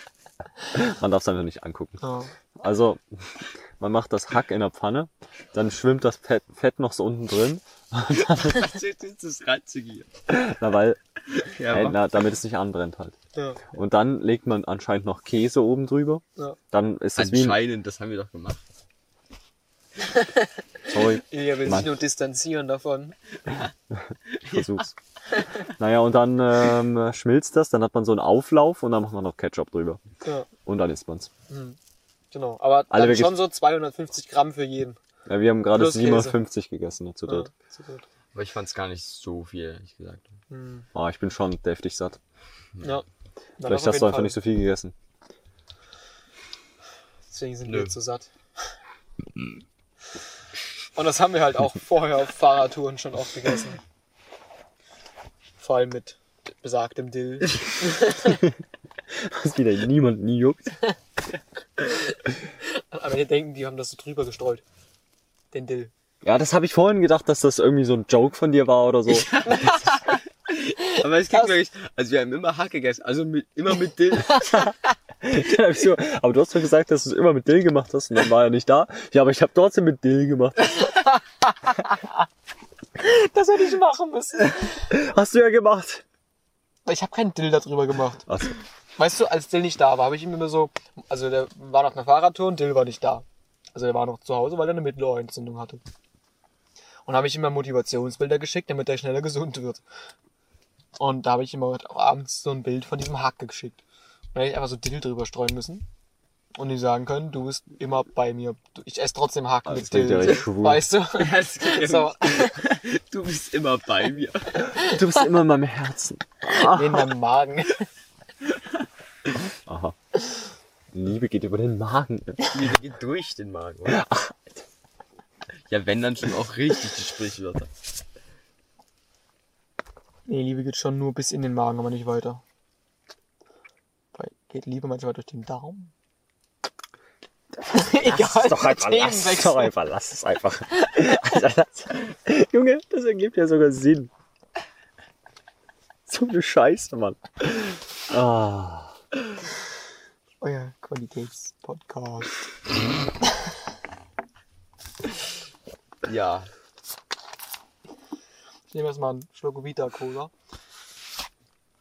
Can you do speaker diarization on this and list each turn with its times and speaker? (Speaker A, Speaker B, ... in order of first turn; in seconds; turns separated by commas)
Speaker A: 0.7-2.0, Speaker B: 2.0-2.3, Speaker A: 2.6-8.7, Speaker C: 8.1-10.1, Speaker A: 10.3-11.0, Speaker C: 11.3-12.0, Speaker A: 11.7-13.2, Speaker B: 13.3-13.6, Speaker A: 13.7-17.6, Speaker C: 17.2-18.6, Speaker B: 20.9-23.2, Speaker A: 20.9-22.0, Speaker C: 24.3-25.5, Speaker A: 24.5-24.9, Speaker A: 25.7-30.0, Speaker A: 30.7-31.3, Speaker B: 31.5-31.8, Speaker B: 32.3-35.0, Speaker A: 32.9-33.4, Speaker A: 35.3-37.5, Speaker B: 35.7-36.4, Speaker B: 37.3-38.0, Speaker C: 38.3-40.4, Speaker B: 40.5-40.9, Speaker A: 40.9-42.2, Speaker C: 42.8-43.0, Speaker B: 43.6-44.4, Speaker A: 43.6-44.9, Speaker B: 47.3-48.3, Speaker C: 47.7-48.0, Speaker B: 51.0-53.8, Speaker B: 55.6-58.4, Speaker A: 59.1-60.8, Speaker B: 62.6-64.6, Speaker B: 65.5-65.9, Speaker A: 66.2-69.3, Speaker C: 69.1-74.6, Speaker B: 69.5-70.2, Speaker B: 70.9-71.5, Speaker A: 74.4-74.7, Speaker A: 75.2-80.9, Speaker B: 80.7-82.0, Speaker B: 83.0-84.8, Speaker A: 84.9-86.0, Speaker B: 86.9-88.3, Speaker A: 88.3-88.5, Speaker B: 89.0-95.8, Speaker B: 97.1-99.8, Speaker B: 101.0-103.8, Speaker B: 104.3-105.9, Speaker B: 106.6-112.6, Speaker A: 109.7-110.9, Speaker C: 111.1-114.8, Speaker A: 114.8-117.1, Speaker B: 116.5-117.9, Speaker A: 119.7-120.0, Speaker A: 120.9-122.5, Speaker C: 122.5-124.0, Speaker A: 123.9-124.6, Speaker C: 125.7-127.7, Speaker B: 130.3-132.4, Speaker B: 134.2-135.9, Speaker B: 137.7-139.7, Speaker A: 138.0-144.1, Speaker A: 146.1-149.0, Speaker B: 150.4-152.4, Speaker C: 156.0-156.5, Speaker B: 158.7-160.3